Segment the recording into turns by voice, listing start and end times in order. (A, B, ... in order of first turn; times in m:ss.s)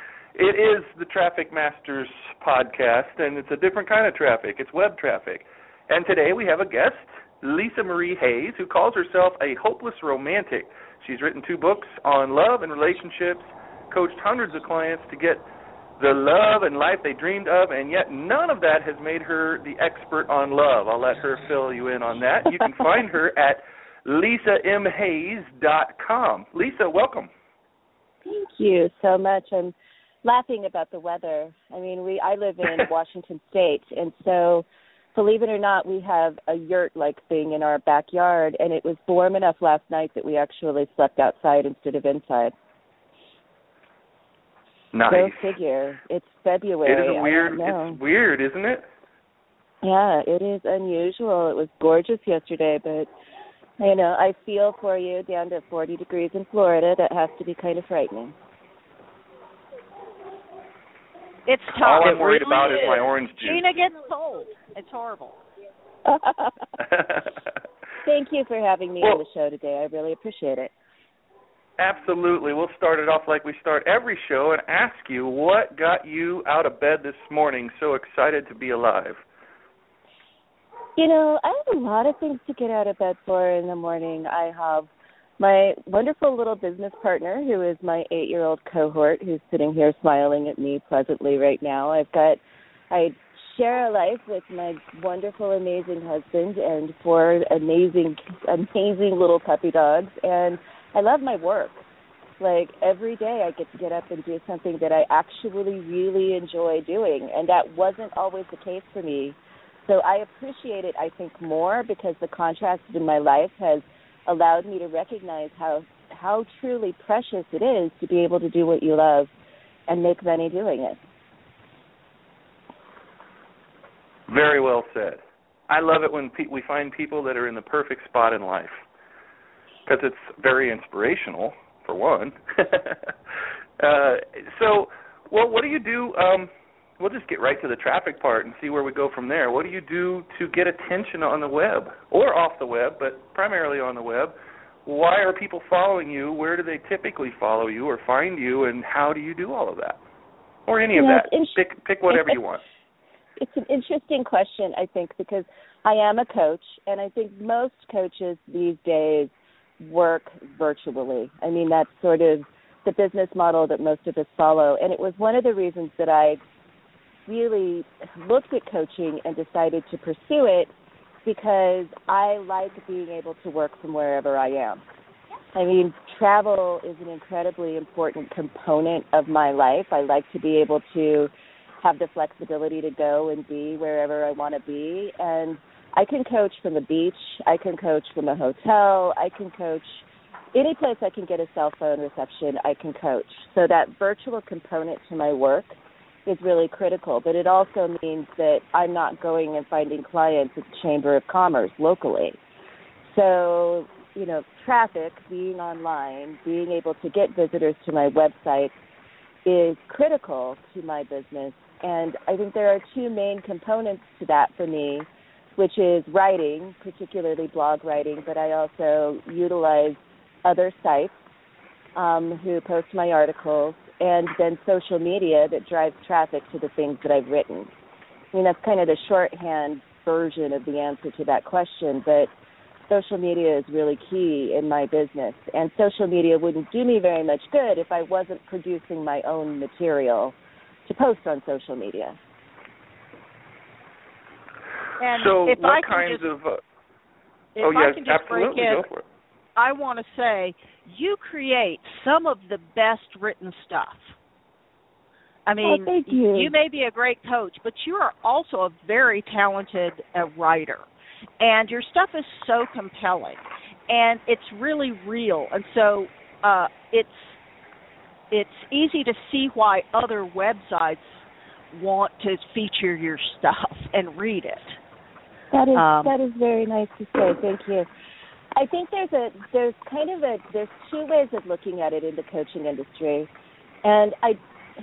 0:00.4-0:15.4 A
0:16.0-0:27.3 A
0:28.2-0:42.5 B
0:44.9-0:45.4 A
0:45.1-0:48.0 B
0:46.8-0:48.8 A
0:49.8-0:53.1 B
0:53.8-0:58.3 B
1:01.5-1:05.4 C
1:01.8-1:03.8 A
1:06.1-1:06.5 B
1:06.9-1:07.3 A
1:08.0-1:10.7 B
1:11.8-1:19.2 A
1:21.0-1:24.9 B
1:25.4-1:32.4 B
1:32.9-1:41.8 B
1:42.4-1:59.3 B
1:59.9-2:01.0 B
2:04.3-2:08.8 A
2:09.9-2:13.1 A
2:13.8-2:24.3 A
2:24.9-2:30.0 A
2:30.7-2:32.6 A
2:31.0-2:32.4 B
2:33.4-2:46.4 B
2:47.3-2:50.7 B
2:51.2-2:54.8 B
2:55.6-3:01.3 B
3:01.8-3:22.4 B
3:23.0-3:28.7 B
3:29.4-3:41.1 B
3:42.0-3:47.7 B
3:48.3-3:52.3 B
3:52.9-4:00.4 B
4:00.9-4:02.2 B
4:05.0-4:06.2 C
4:05.1-4:06.6 A
4:07.6-4:08.8 C
4:07.6-4:09.0 A
4:09.6-4:14.1 C
4:15.5-4:20.8 C
4:15.6-4:16.5 B
4:21.4-4:27.3 C
4:28.3-4:31.2 C
4:31.7-4:34.8 C
4:35.5-4:37.9 B
4:35.7-4:36.1 C
4:38.6-4:43.3 B
4:43.8-4:44.4 B